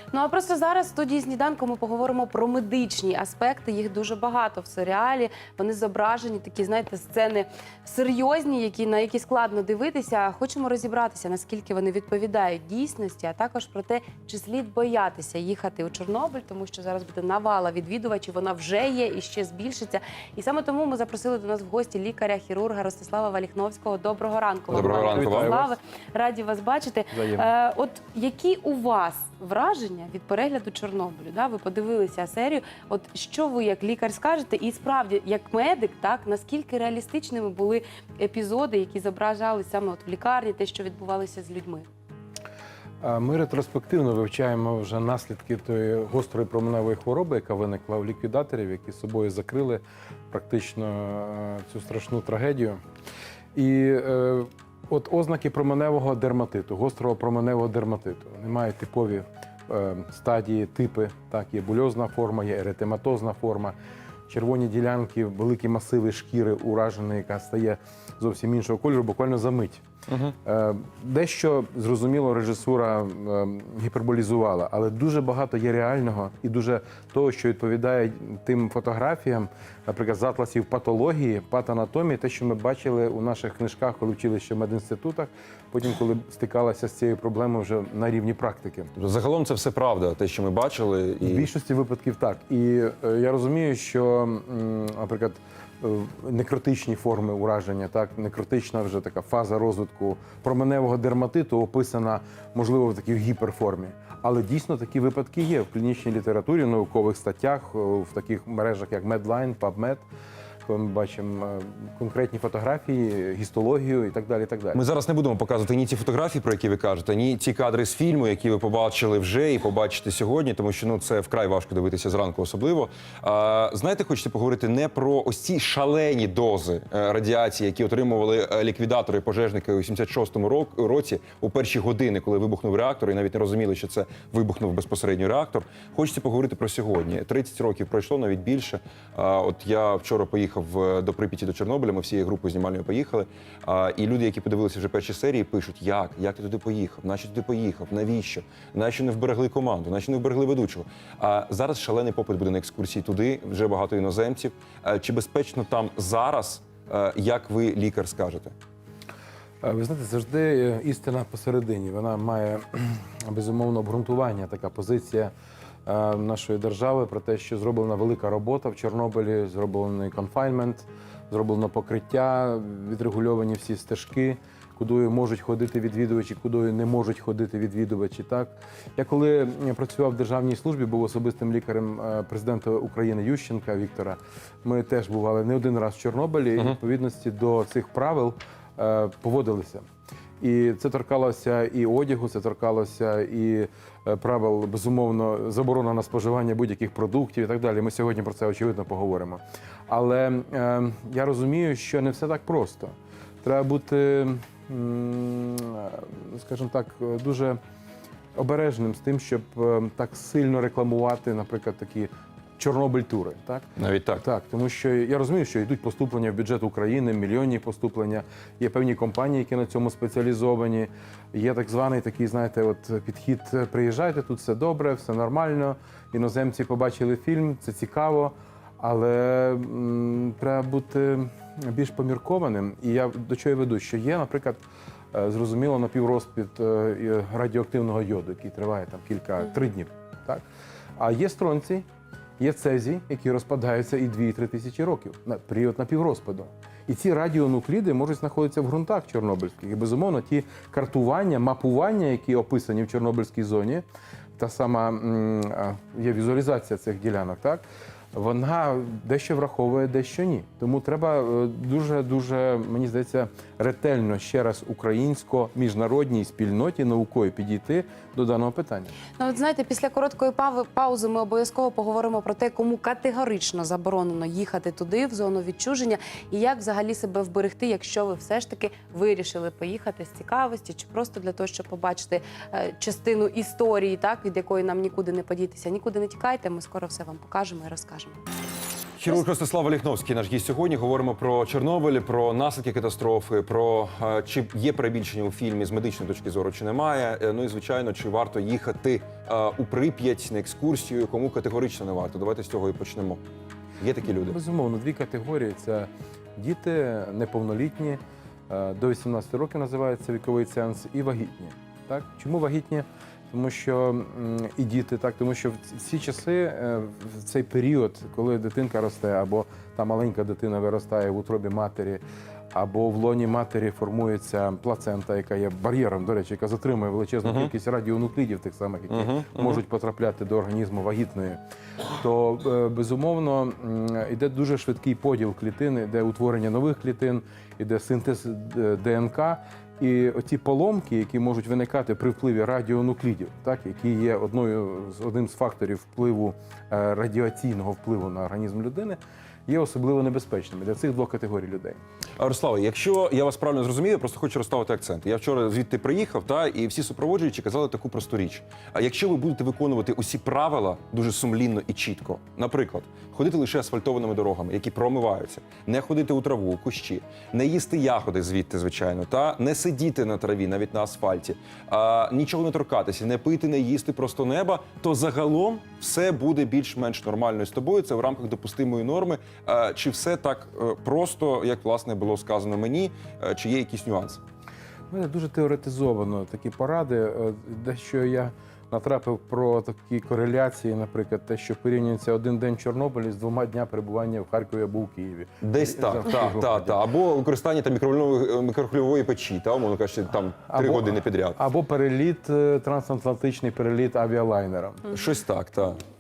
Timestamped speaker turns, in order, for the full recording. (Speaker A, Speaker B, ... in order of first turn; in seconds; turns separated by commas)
Speaker A: 0.1-41.9, Speaker B: 24.7-25.6, Speaker C: 24.7-25.7, Speaker C: 27.1-27.5, Speaker C: 43.0-52.8, Speaker C: 53.5-63.8, Speaker C: 64.3-69.8, Speaker B: 70.1-70.3, Speaker C: 70.5-88.9, Speaker B: 89.0-91.5, Speaker C: 91.2-110.0, Speaker C: 110.7-114.8, Speaker B: 114.7-158.5, Speaker C: 159.6-165.3, Speaker C: 165.8-189.8, Speaker C: 190.4-202.9, Speaker C: 203.4-207.6, Speaker C: 208.3-213.7, Speaker B: 213.8-214.2, Speaker C: 214.2-234.6, Speaker C: 235.1-240.4, Speaker C: 241.0-241.8, Speaker C: 242.4-253.8, Speaker C: 254.4-268.9, Speaker A: 269.2-288.2, Speaker B: 289.0-303.2, Speaker B: 303.8-304.4, Speaker C: 304.1-331.4, Speaker B: 328.9-329.6, Speaker C: 332.0-351.8, Speaker B: 352.2-384.2, Speaker C: 384.9-396.8, Speaker B: 395.4-401.4, Speaker C: 400.4-404.9, Speaker B: 404.9-405.8